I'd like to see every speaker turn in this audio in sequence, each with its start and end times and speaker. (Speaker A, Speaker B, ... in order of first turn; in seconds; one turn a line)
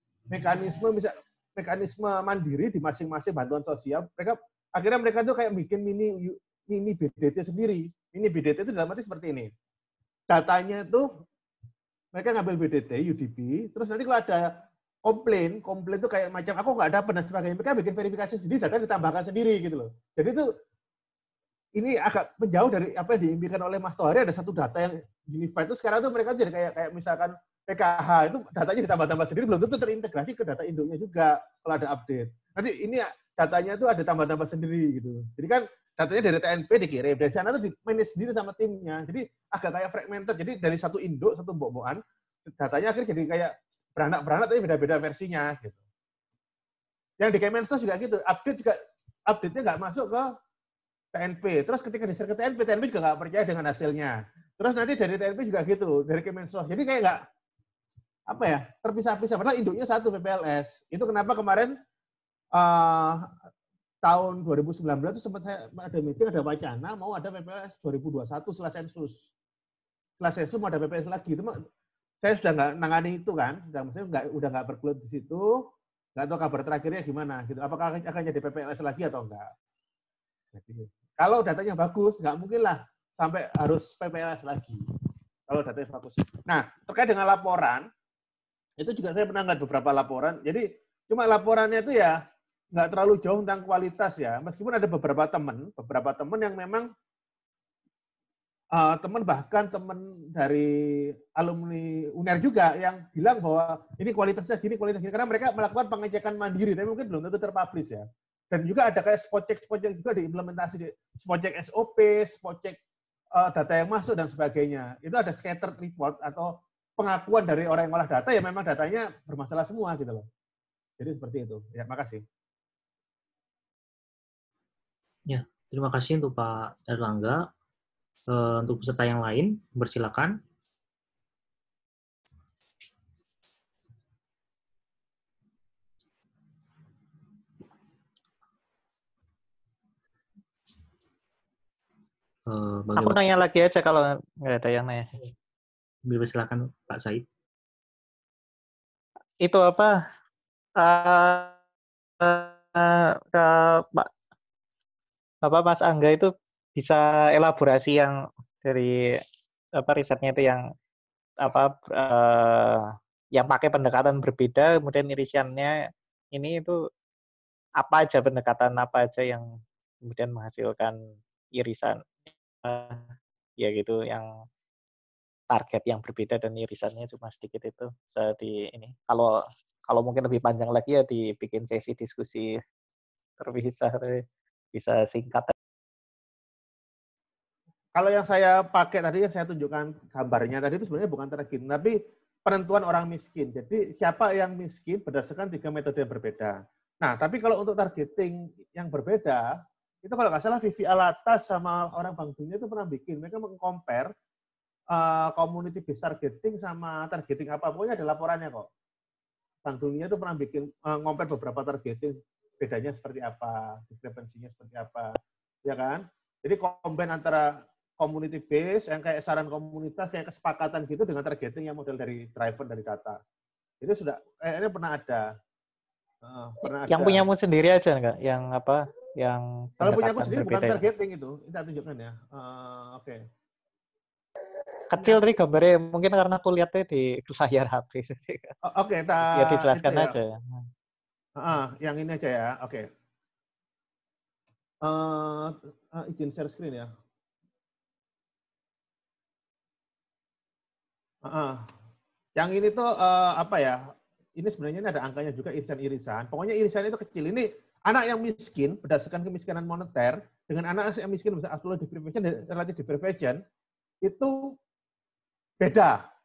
Speaker A: 0.3-9.5
Speaker A: 10.3-11.1
Speaker A: 12.1-20.5
Speaker A: 21.8-45.8
Speaker A: 47.2-50.3
Speaker A: 51.1-57.2
Speaker A: 58.3-61.7
Speaker A: 62.5-63.3
Speaker A: 64.0-69.2
Speaker A: 70.2-71.5
Speaker A: 72.2-75.6
Speaker A: 76.2-79.5
Speaker A: 80.5-84.8
Speaker A: 85.5-87.9
Speaker A: 88.8-92.2
Speaker A: 92.7-96.9
Speaker A: 98.8-112.8
Speaker A: 113.4-120.3
Speaker A: 121.0-122.2
Speaker B: 125.3-127.5
Speaker B: 128.3-130.4
Speaker B: 142.5-143.2
Speaker C: 143.0-145.1
Speaker B: 146.1-147.3
Speaker C: 149.4-150.0
Speaker C: 150.8-151.6
Speaker C: 152.2-154.1
Speaker C: 155.4-159.2
Speaker C: 159.8-160.7
Speaker C: 161.4-166.8
Speaker C: 167.8-169.5
Speaker C: 170.1-171.0
Speaker C: 171.6-172.1
Speaker C: 172.6-174.3
Speaker C: 175.5-182.6
Speaker C: 183.4-184.2
Speaker C: 184.7-185.5
Speaker A: 187.9-199.5
Speaker A: 200.0-204.1
Speaker A: 204.9-208.7
Speaker A: 209.7-215.1
Speaker A: 215.7-217.5
Speaker A: 218.0-223.2
Speaker A: 223.8-225.3
Speaker A: 226.2-227.3
Speaker C: 226.9-230.8
Speaker A: 229.8-233.3
Speaker C: 234.9-238.6
Speaker A: 235.0-235.2
Speaker A: 238.6-240.2
Speaker C: 239.2-240.6
Speaker A: 241.4-242.9
Speaker A: 244.8-246.9
Speaker A: 251.2-251.7
Speaker A: 252.4-253.8
Speaker A: 254.4-263.4
Speaker A: 264.0-264.4
Speaker A: 265.6-266.0